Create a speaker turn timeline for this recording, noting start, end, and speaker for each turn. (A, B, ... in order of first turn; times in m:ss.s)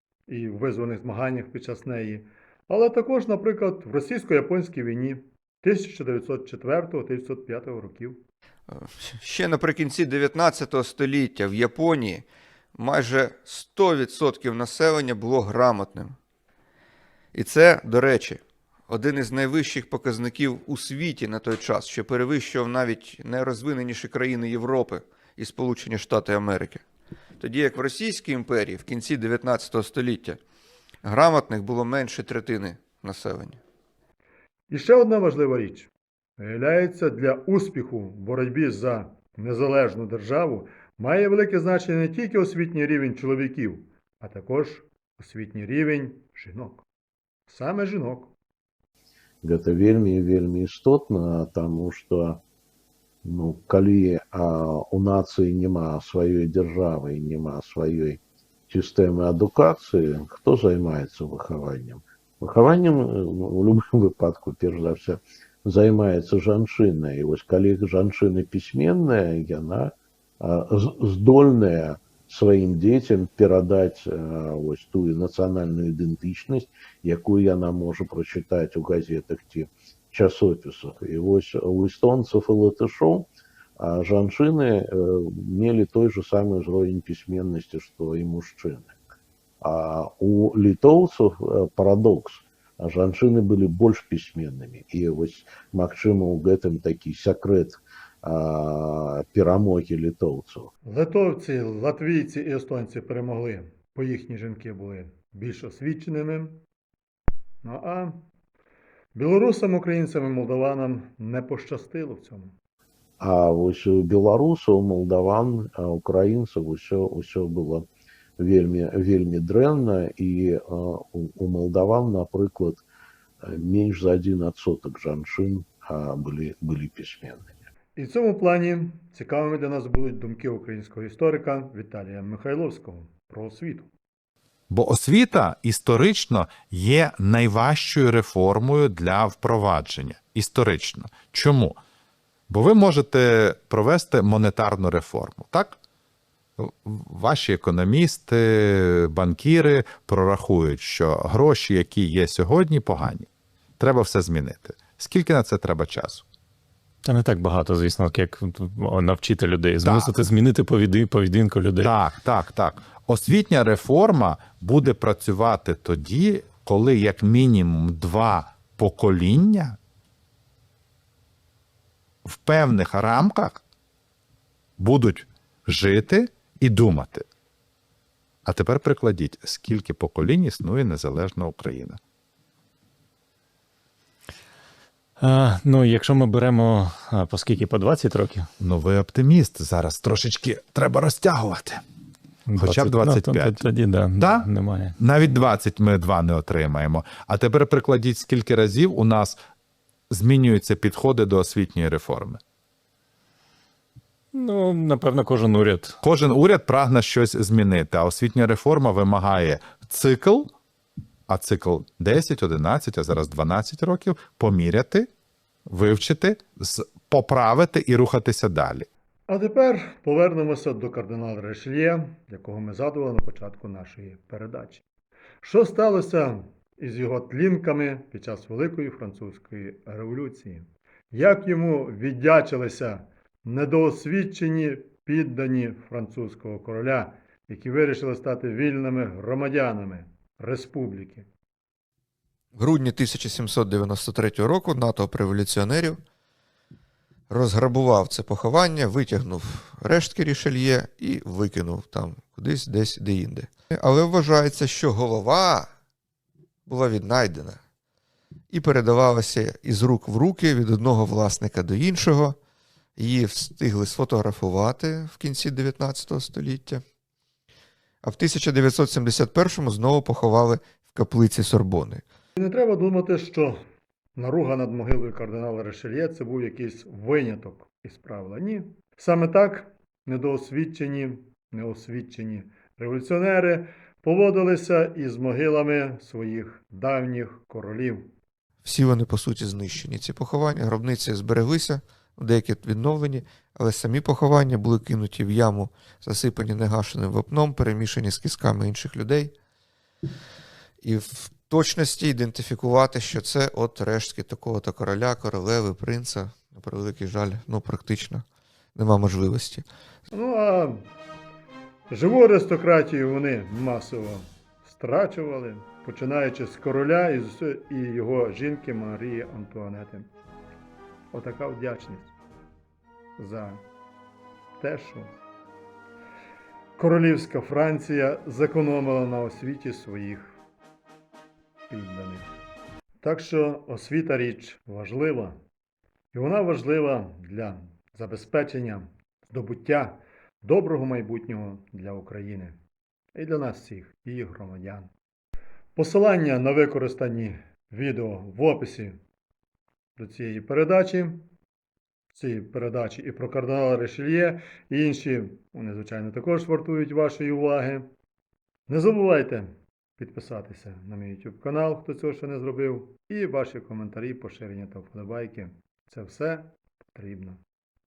0:00.3-0:08.2 A
0:08.7-0:16.2 B
0:17.3-0:26.8 B
0:27.4-0:30.4 B
0:31.0-0:33.6 B
0:34.7-0:46.8 A
0:47.5-0:48.3 A
0:49.4-0:52.4 C
0:53.2-1:29.0 C
1:29.6-1:40.7 C
1:40.8-1:46.6 A
1:47.6-1:48.2 A
1:49.1-1:52.5 A
1:53.2-1:57.9 C
1:58.4-2:02.8 C
2:03.4-2:07.6 C
2:08.0-2:13.9 A
2:14.7-2:21.8 D
2:22.5-2:25.8 D
2:26.6-2:36.2 D
2:37.0-2:41.9 E
2:39.8-2:40.1 D
2:41.8-2:49.8 D
2:52.2-2:53.6 D
2:54.8-2:57.3 D
2:58.4-3:02.0 D
3:05.2-3:08.5 E
3:08.6-3:11.8 D
3:12.5-3:14.9 E
3:12.6-3:13.6 D
3:14.2-3:19.4 D
3:20.1-3:22.4 D
3:24.3-3:26.0 E
3:26.0-3:30.5 D
3:31.3-3:35.1 D
3:35.7-3:38.9 D
3:39.3-3:44.8 A
3:45.4-4:01.3 A
4:02.6-4:06.0 B
4:07.3-4:15.7 B
4:16.7-4:17.6 B
4:18.5-4:22.4 B
4:23.0-4:26.8 B
4:28.0-4:32.0 B
4:32.4-4:33.6 A
4:34.2-4:48.1 A
4:48.6-4:59.3 B
5:00.8-5:09.6 B
5:10.1-5:10.9 A
5:11.9-5:20.1 A
5:21.1-5:22.1 A
5:23.2-5:23.6 A
5:24.6-5:25.1 A
5:26.8-5:30.4 A
5:31.7-5:32.3 A
5:33.0-5:35.4 A
5:36.1-5:42.6 A
5:43.1-5:44.9 A
5:45.8-5:49.0 A
5:50.0-5:51.2 A
5:52.1-5:57.9 A
5:58.7-6:07.4 A